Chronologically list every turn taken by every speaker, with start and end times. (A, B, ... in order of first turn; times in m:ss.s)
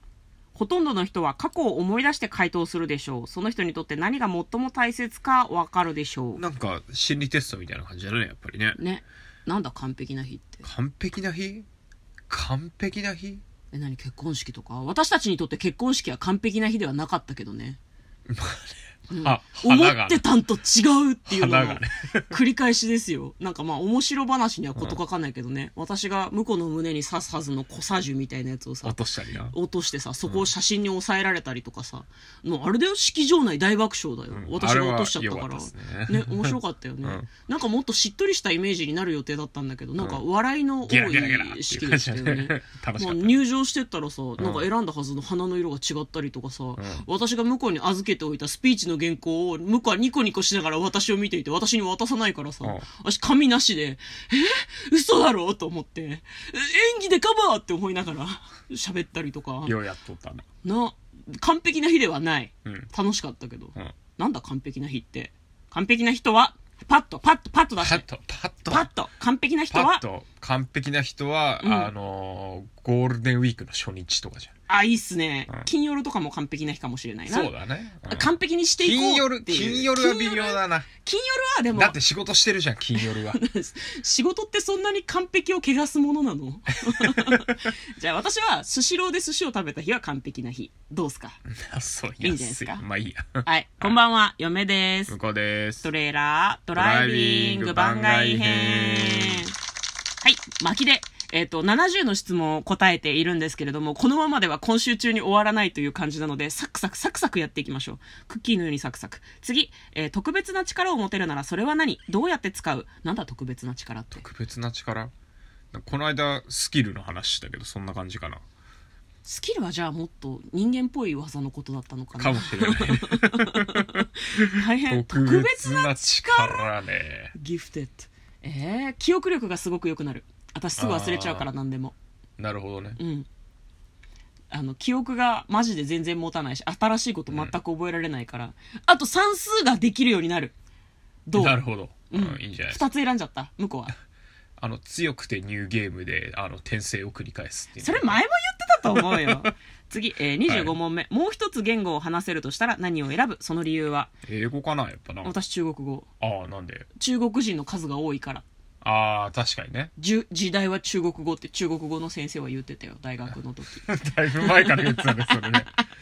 0:00.5-0:06.4 A
0:06.4-0:08.8 B
0:08.8-0:10.6 A
0:10.6-0:11.7 B
0:12.3-0:13.4 B
0:13.7-0:17.8 A
0:18.3-0:20.3 B
0:19.1-0:29.0 A
0:21.3-0:22.4 B
0:28.8-0:29.6 B
0:29.5-0:59.8 A
0:34.3-0:37.3 B
0:40.9-0:43.4 B
0:44.4-0:44.7 B
0:46.8-0:47.1 B
0:59.6-1:00.4 B
1:00.6-1:08.1 A
1:07.8-1:08.9 B
1:08.7-1:10.0 A
1:09.7-1:14.5 B
1:11.6-1:11.9 A
1:14.7-1:17.5 A
1:17.3-1:20.9 B
1:18.1-1:22.0 A
1:21.7-1:23.4 B
1:23.0-1:31.4 A
1:27.0-1:27.6 B
1:31.5-1:34.0 B
1:32.2-1:32.8 A
1:33.4-1:35.2 A
1:35.1-1:35.9 B
1:35.8-1:39.5 A
1:36.7-1:39.5 B
1:40.2-1:54.2 A
1:54.2-1:55.1 B
1:55.7-1:58.4 B
1:59.2-2:06.7 A
2:02.2-2:07.3 B
2:07.3-2:12.0 A
2:10.8-2:11.5 B
2:12.4-2:13.0 B
2:13.0-2:13.3 A
2:14.5-2:20.5 A
2:17.3-2:17.6 B
2:21.3-2:21.6 A
2:21.3-2:22.9 B
2:22.1-2:23.9 A
2:24.6-2:28.2 B
2:27.8-2:34.1 A
2:29.0-2:29.5 B
2:30.5-2:30.8 B
2:34.2-2:35.3 B
2:35.2-2:36.1 A
2:36.2-2:36.9 B
2:37.0-2:38.4 A
2:38.8-2:39.9 B
2:40.0-2:45.8 A
2:43.9-2:45.7 B